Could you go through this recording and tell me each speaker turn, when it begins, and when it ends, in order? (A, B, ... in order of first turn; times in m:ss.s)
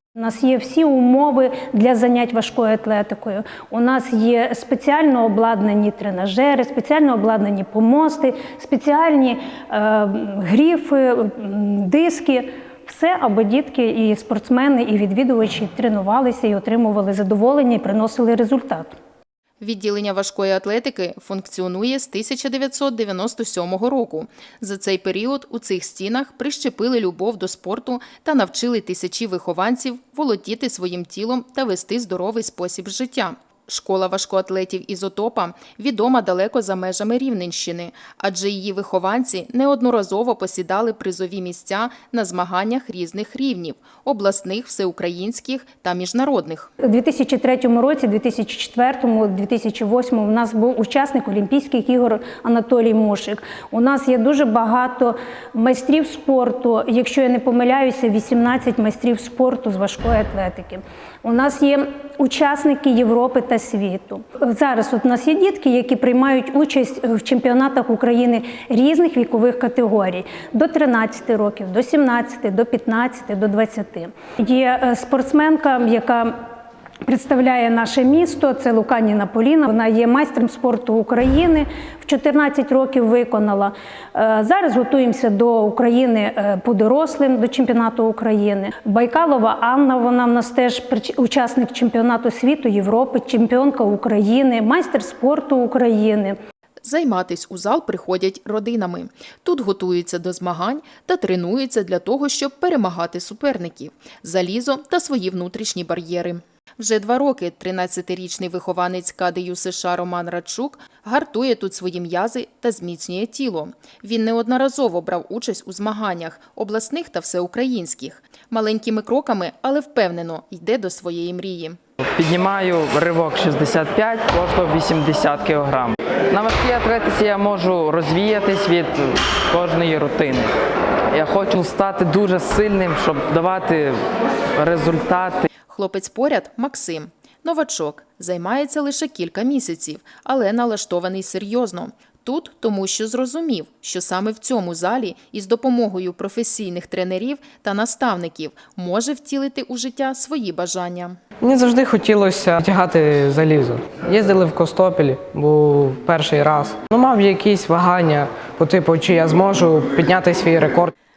0:00.2-0:19.0 A
0:19.6-0:46.7 B
0:46.8-1:16.3 A
1:17.0-1:36.4 A
1:36.8-2:01.8 B
2:02.2-2:10.5 C
2:11.1-2:14.0 C
2:14.6-2:15.4 C
2:15.7-2:31.2 B
2:31.4-2:40.9 D